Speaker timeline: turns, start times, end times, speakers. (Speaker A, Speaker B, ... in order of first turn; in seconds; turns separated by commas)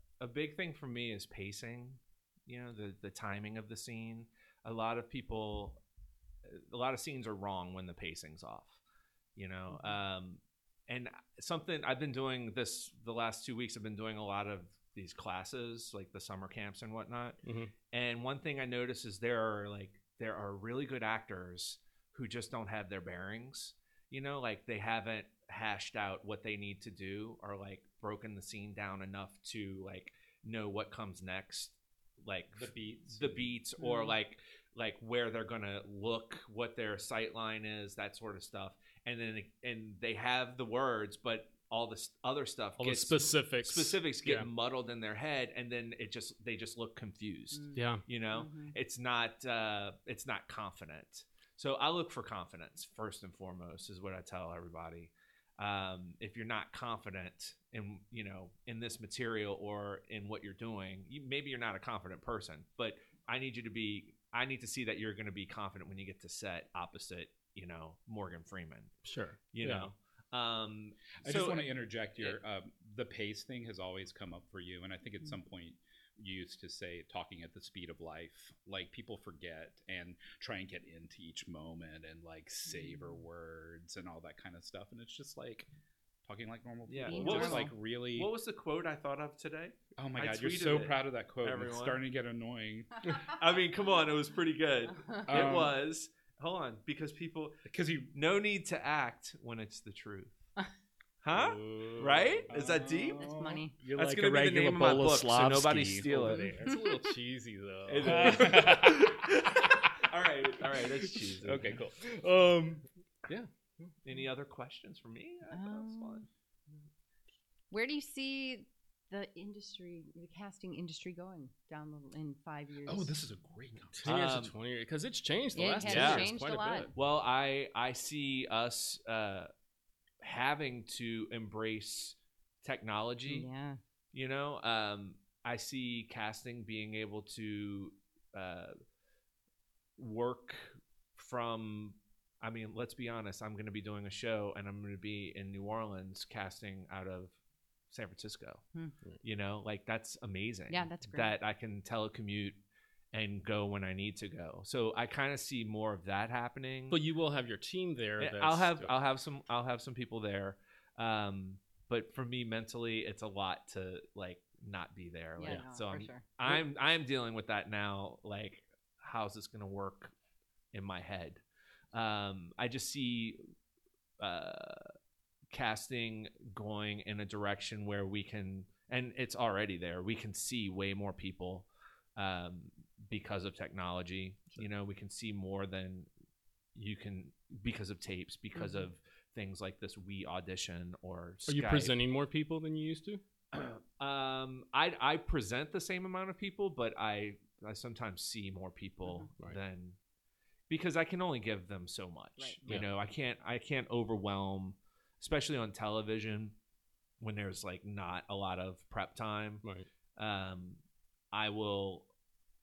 Speaker A: 0.2-5.8, Speaker A: 6.5-8.8, Speaker A: 9.4-17.4, Speaker B: 17.4-17.7, Speaker A: 17.9-69.0, Speaker C: 32.5-33.5, Speaker D: 33.8-34.1, Speaker B: 42.8-44.5, Speaker D: 47.5-47.8, Speaker B: 47.7-48.0, Speaker D: 48.3-48.7, Speaker B: 69.0-69.9, Speaker A: 69.5-72.4, Speaker C: 71.2-85.7, Speaker D: 82.7-83.0, Speaker C: 86.3-88.3, Speaker A: 86.9-92.0, Speaker D: 87.1-87.7, Speaker C: 90.0-93.2, Speaker A: 93.1-100.4, Speaker D: 94.9-95.7, Speaker C: 95.3-95.7, Speaker C: 97.7-98.1, Speaker A: 101.2-103.3, Speaker B: 101.3-102.5, Speaker C: 102.5-106.7, Speaker D: 103.2-103.8, Speaker A: 104.0-106.6, Speaker B: 106.6-108.9, Speaker D: 106.6-107.0, Speaker A: 107.9-111.8, Speaker C: 108.0-109.3, Speaker B: 111.4-111.9, Speaker C: 111.6-112.8, Speaker B: 113.3-113.9, Speaker A: 114.0-116.3, Speaker D: 115.5-116.3, Speaker D: 117.7-123.2, Speaker C: 122.9-124.1, Speaker B: 124.0-126.9, Speaker A: 124.0-124.5, Speaker D: 125.5-126.9, Speaker A: 125.8-126.3, Speaker A: 126.9-129.5, Speaker A: 130.2-133.5, Speaker D: 133.3-133.8, Speaker A: 134.1-138.8, Speaker A: 140.0-147.3, Speaker A: 147.9-148.6, Speaker A: 149.2-152.6, Speaker D: 150.7-151.3, Speaker A: 153.1-157.0, Speaker B: 156.9-158.9, Speaker A: 158.2-170.1, Speaker D: 165.4-166.2, Speaker A: 170.7-171.4, Speaker A: 171.9-173.5, Speaker A: 174.2-174.9, Speaker A: 175.5-186.1, Speaker A: 186.7-191.9, Speaker D: 188.6-188.9, Speaker B: 191.5-193.2, Speaker A: 193.5-200.0, Speaker A: 200.7-206.6, Speaker A: 207.2-209.6, Speaker A: 210.2-210.8, Speaker A: 211.3-212.1